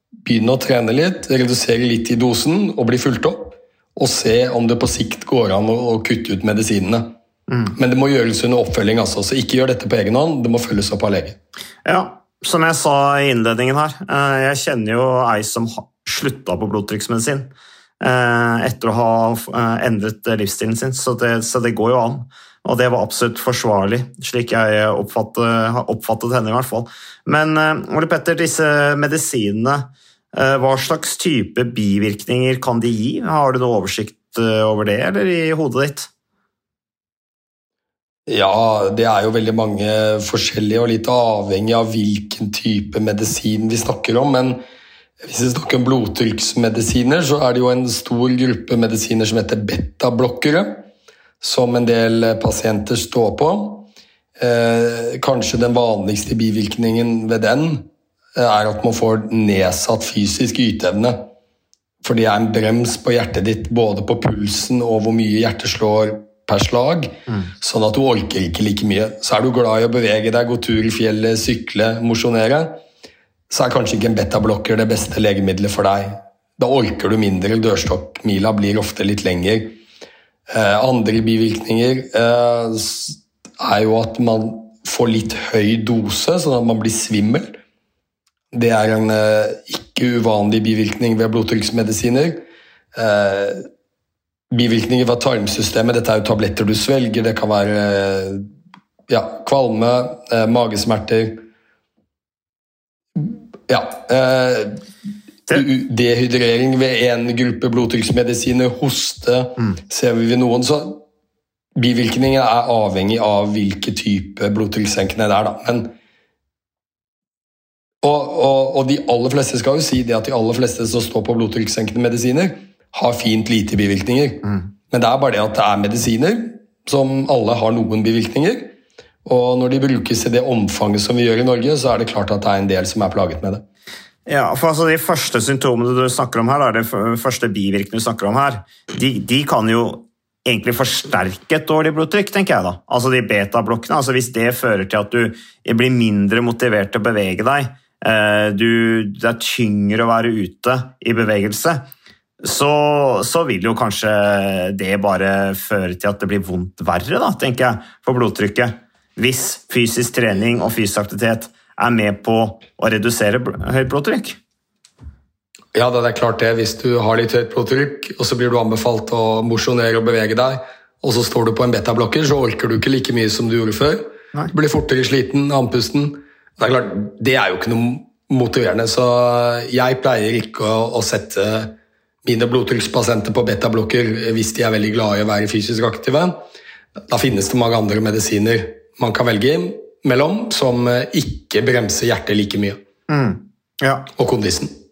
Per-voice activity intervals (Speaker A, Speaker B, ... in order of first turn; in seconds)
Speaker A: 0.2-7.2, 7.7-11.4, 38.3-44.6, 45.2-50.9, 51.4-61.3, 62.0-72.8, 73.5-79.8, 80.5-87.6, 88.5-92.4, 92.9-93.6, 94.5-98.4, 99.1-101.4, 103.2-104.8, 105.5-111.0, 111.8-116.0, 118.0-133.7, 165.7-186.4, 187.1-192.8, 194.2-194.7
Speaker B: 7.5-7.8, 11.8-36.1, 134.3-151.9, 152.4-164.4, 193.1-194.1